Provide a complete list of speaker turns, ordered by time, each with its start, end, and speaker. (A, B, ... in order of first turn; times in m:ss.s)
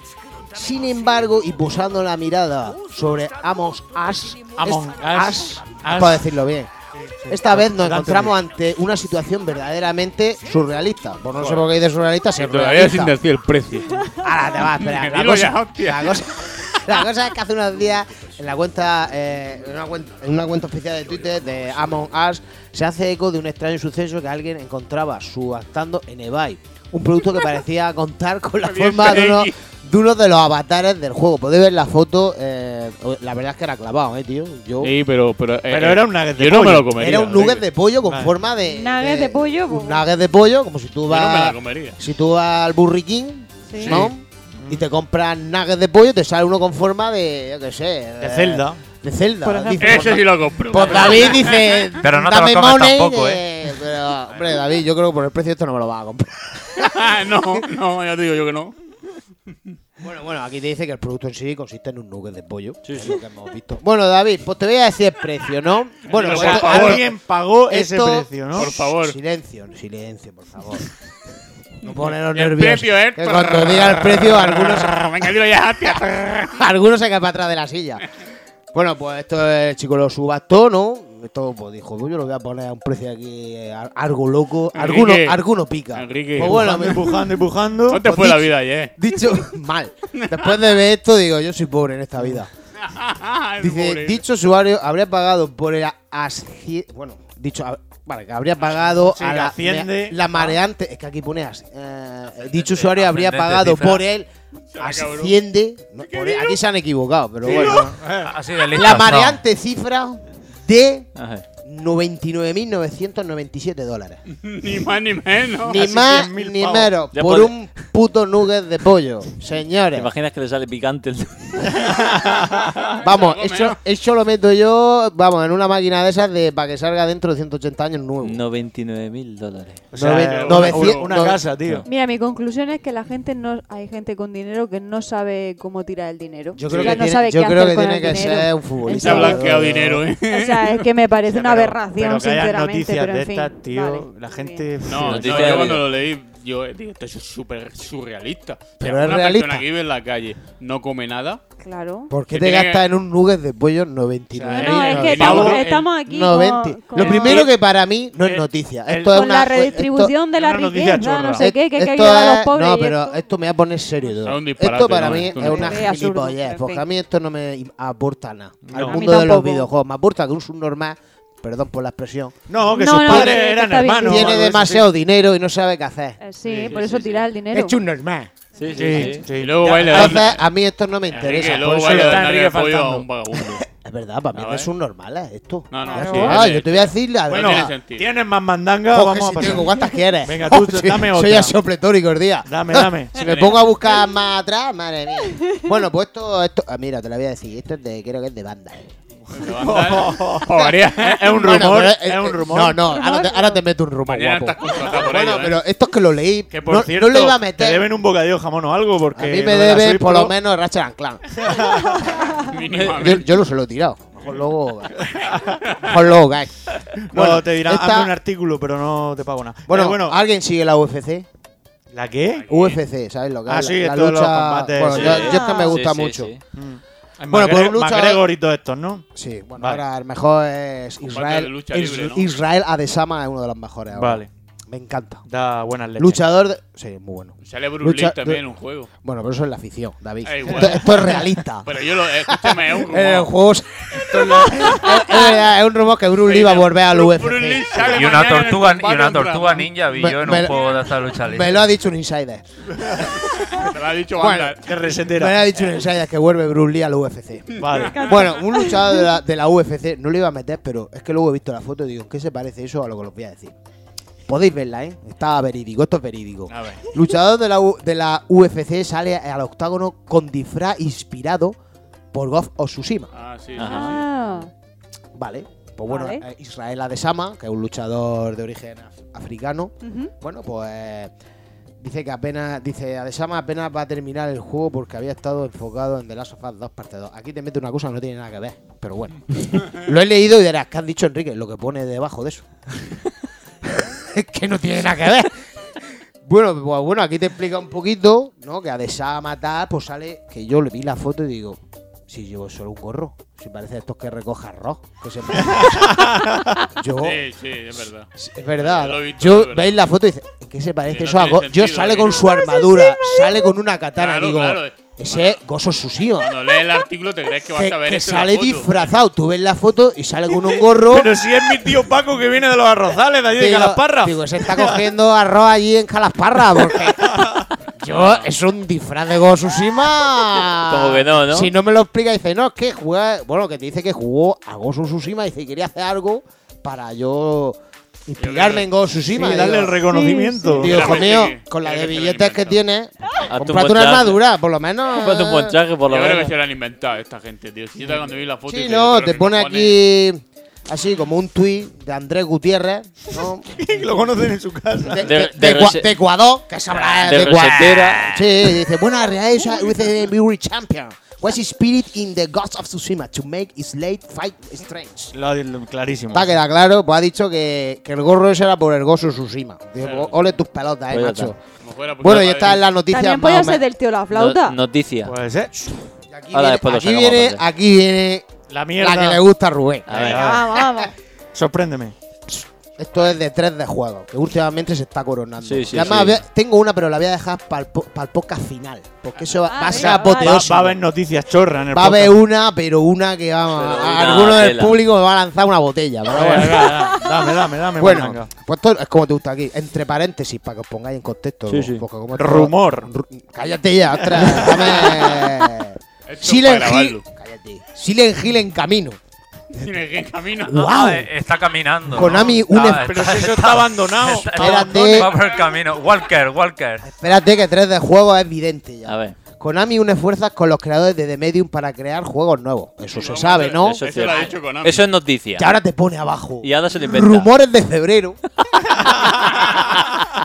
0:00.5-0:06.7 A
0:04.6-0:06.3 B
0:06.9-0:08.3 B
0:07.3-0:13.2 A
0:11.3-0:11.6 C
0:12.4-0:16.8 C
0:14.2-0:34.9 A
0:28.6-0:29.5 C
0:34.8-0:37.6 C
0:35.7-0:37.4 B
0:37.0-0:57.1 A
0:38.0-0:38.3 B
0:38.6-0:40.0 D
0:41.1-0:42.0 C
0:43.7-0:44.0 D
0:43.8-0:44.1 C
0:43.9-0:44.8 B
0:48.2-0:48.8 B
0:49.4-0:50.2 D
0:49.8-0:51.9 C
0:52.0-0:53.4 E
0:56.8-0:58.8 C
1:00.0-1:07.1 A
1:02.8-1:03.2 F
1:06.0-1:07.0 C
1:06.2-1:08.7 B
1:07.7-1:10.9 A
1:08.5-1:09.2 C
1:11.8-1:15.3 A
1:11.8-1:16.6 C
1:16.5-1:18.0 A
1:18.7-1:27.1 A
1:24.7-1:25.4 C
1:25.9-1:27.2 C
1:26.4-1:28.0 B
1:27.9-1:28.9 C
1:28.0-1:32.5 A
1:30.2-1:30.5 C
1:32.8-1:34.2 C
1:33.6-1:47.9 A
1:39.0-1:40.4 B
1:42.9-1:44.0 E
1:44.7-1:45.4 C
1:46.0-1:46.6 C
1:47.4-1:47.8 C
1:47.4-1:48.3 B
1:48.2-1:49.4 E
1:48.7-1:51.1 A
1:51.2-1:51.4 F
1:51.6-1:54.2 A
1:54.3-1:55.8 C
1:55.6-2:00.1 A
1:55.7-1:56.9 B
1:57.1-1:57.5 F
1:59.9-2:01.9 F
2:01.7-2:02.4 B
2:03.0-2:03.8 C
2:03.0-2:08.4 A
2:08.2-2:09.8 F
2:09.9-2:11.8 B
2:09.9-2:11.4 A
2:10.1-2:11.1 C
2:11.8-2:19.4 D
2:16.6-2:20.0 A
2:16.7-2:17.0 C
2:18.9-2:20.8 C
2:20.3-2:24.7 D
2:21.3-2:25.8 B
2:24.8-2:31.4 C
2:25.0-2:25.8 F
2:28.8-2:29.6 A
2:31.6-2:32.1 D
2:32.1-2:40.1 A
2:32.3-2:32.8 C
2:34.4-2:35.8 C
2:34.5-2:37.5 D
2:35.0-2:35.9 B
2:37.0-2:37.5 C
2:38.9-2:39.2 B
2:39.0-2:43.2 D
2:40.3-2:41.4 B
2:41.4-2:52.4 A
2:44.2-2:45.9 C
2:45.4-2:46.8 D
2:48.6-2:49.0 B
2:48.8-2:49.7 D
2:52.5-2:54.8 B
2:52.7-2:54.4 D
2:53.0-2:53.4 A
2:54.0-2:56.2 A
2:56.2-2:57.8 D
2:56.4-2:57.2 C
2:57.5-2:58.3 A
2:58.6-2:59.2 F
2:58.8-2:59.2 D
2:58.8-3:00.2 B
2:59.4-3:00.4 C
2:59.8-3:02.5 A
3:01.1-3:03.6 C
3:01.8-3:02.1 B
3:02.1-3:02.9 E
3:03.3-3:07.7 A
3:04.3-3:04.7 C
3:05.7-3:08.0 C
3:05.8-3:06.4 D
3:07.3-3:09.7 B
3:08.9-3:18.9 A
3:10.2-3:11.6 B
3:12.4-3:13.1 B
3:13.2-3:13.7 C
3:19.2-3:22.8 B
3:19.3-3:21.6 C
3:21.2-3:27.9 A
3:22.9-3:23.6 D
3:24.1-3:25.6 C
3:26.5-3:30.3 B
3:29.2-3:31.4 A
3:31.4-3:32.0 B
3:32.4-3:33.3 C
3:32.7-3:35.1 A
3:35.1-3:35.6 B
3:35.7-3:36.0 C
3:35.7-3:38.1 A
3:37.0-3:40.2 B
3:39.7-3:41.3 A
3:41.9-3:42.4 B
3:42.3-3:42.8 C
3:42.5-3:46.3 A
3:43.5-3:45.2 B
3:44.9-3:46.4 F
3:45.2-3:45.8 D
3:46.5-3:49.0 B
3:47.3-3:48.2 A
3:49.1-3:55.2 A
3:49.6-3:49.8 B
3:51.0-3:52.3 C
3:53.9-3:54.3 B
3:55.3-3:56.2 B
3:56.0-3:58.4 A
3:57.4-3:58.9 C
3:59.0-4:08.1 A
4:00.2-4:03.3 C
4:00.5-4:00.7 B
4:04.0-4:05.3 C
4:06.2-4:09.7 C
4:07.9-4:11.6 E
4:09.9-4:10.6 A
4:11.2-4:12.5 A
4:13.2-4:14.7 C
4:14.1-4:14.6 A
4:14.6-4:15.4 B
4:15.1-4:23.5 A
4:17.6-4:18.1 C
4:17.6-4:18.1 B
4:17.9-4:19.0 D
4:24.3-4:31.6 A
4:26.5-4:26.8 C
4:32.1-4:33.1 A
4:33.1-4:34.1 C
4:33.6-4:34.0 F
4:33.6-4:34.5 D
4:35.2-4:41.1 A
4:35.9-4:36.2 D
4:39.8-4:40.1 D
4:41.8-4:52.5 A
4:53.6-4:55.3 A
4:55.8-5:06.1 A
5:05.5-5:06.5 B
5:06.7-5:07.3 A
5:06.9-5:09.8 C
5:08.1-5:16.3 A
5:10.8-5:12.4 C
5:14.0-5:15.4 C
5:16.2-5:18.9 C
5:17.5-5:21.1 A
5:20.8-5:24.8 B
5:23.3-5:27.2 A
5:27.0-5:27.5 B
5:27.8-5:39.8 A
5:27.9-5:28.3 C
5:30.6-5:31.5 F
5:38.2-5:38.7 C
5:39.1-5:41.1 B
5:39.8-5:40.6 D
5:40.5-5:45.6 A
5:40.6-5:42.6 C
5:43.3-5:44.2 F
5:44.9-5:46.3 F
5:45.9-5:49.8 C
5:47.8-5:54.0 A
5:53.6-5:55.1 B
5:54.9-6:05.1 A
5:55.0-5:55.9 F
5:56.7-5:58.3 F
6:05.1-6:06.4 B
6:06.1-6:11.4 A
6:09.8-6:10.1 C
6:10.9-6:11.3 F
6:11.6-6:12.6 C
6:12.0-6:13.6 A
6:12.9-6:14.6 D
6:14.1-6:15.1 F
6:15.0-6:15.5 B
6:16.1-6:20.8 A
6:16.3-6:17.4 F
6:18.5-6:19.2 B
6:19.9-6:20.2 F
6:19.9-6:20.5 B
6:20.1-6:20.9 D
6:21.3-6:21.9 B
6:22.3-6:30.8 A
6:25.4-6:26.2 F
6:29.4-6:30.4 D
6:29.7-6:32.2 B
6:31.7-6:36.9 A
6:33.5-6:34.8 F
6:36.1-6:38.3 B
6:37.8-6:49.0 A
6:41.5-6:41.8 F
6:42.1-6:42.9 B
6:44.2-6:44.9 B
6:46.0-6:47.0 C
6:49.5-6:50.7 C
6:50.4-6:51.1 A
6:50.6-6:56.8 E
6:51.9-6:53.1 A
6:52.6-6:55.0 B
6:54.3-6:55.1 A
6:56.8-7:04.3 A
6:58.8-6:59.2 F
7:02.9-7:04.8 C
7:03.6-7:05.5 F
7:05.4-7:08.2 A
7:06.4-7:07.3 F
7:08.7-7:09.8 B